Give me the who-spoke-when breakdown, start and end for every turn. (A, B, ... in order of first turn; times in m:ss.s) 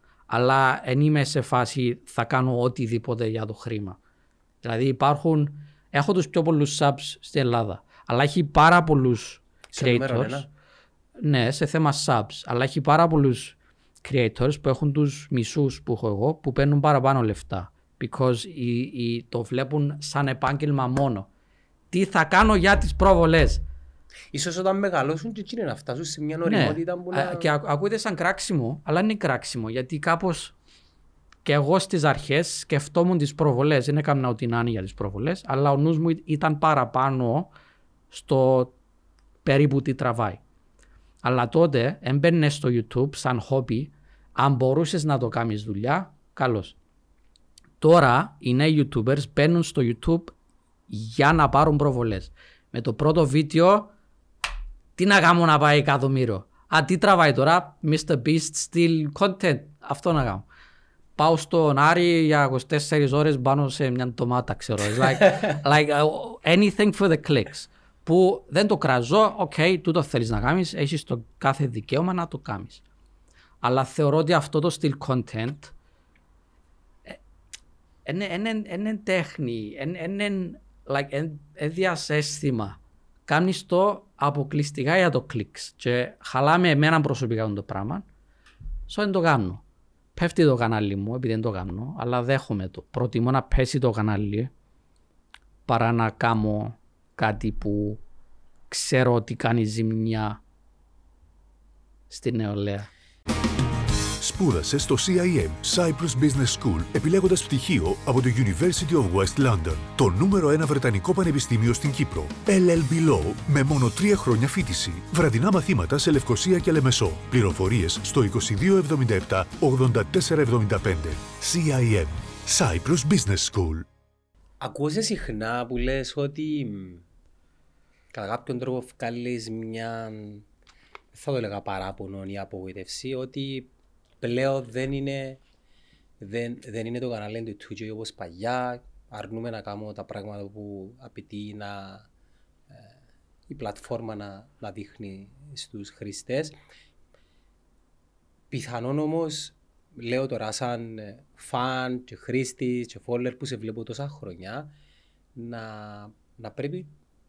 0:00.3-0:04.0 A
0:04.6-0:10.5 A
0:09.7-0:10.5 B
0:11.2-0:21.3 A
0:21.9-0:23.6 A
0:24.3-0:27.5 B
0:26.5-0:30.5 A
0:31.4-0:37.5 A
0:38.1-0:38.7 A
0:39.4-0:40.4 A
0:41.2-0:46.8 A
0:47.8-0:50.3 A
0:50.9-0:53.9 A
0:55.0-1:00.5 A
1:01.2-1:12.8 A
1:13.6-1:15.7 A
1:18.0-1:28.0 A
1:28.9-1:29.6 A
1:30.2-1:34.5 A
1:35.7-1:38.0 A
1:38.7-1:40.4 A
1:42.1-1:42.9 A
1:44.2-2:03.9 C
2:04.6-2:07.0 B
2:08.1-2:10.5 B
2:11.1-2:13.7 B
2:14.2-2:15.4 B
2:16.2-2:22.1 B
2:23.5-2:26.6 B
2:28.5-2:34.7 B
2:35.4-2:36.9 B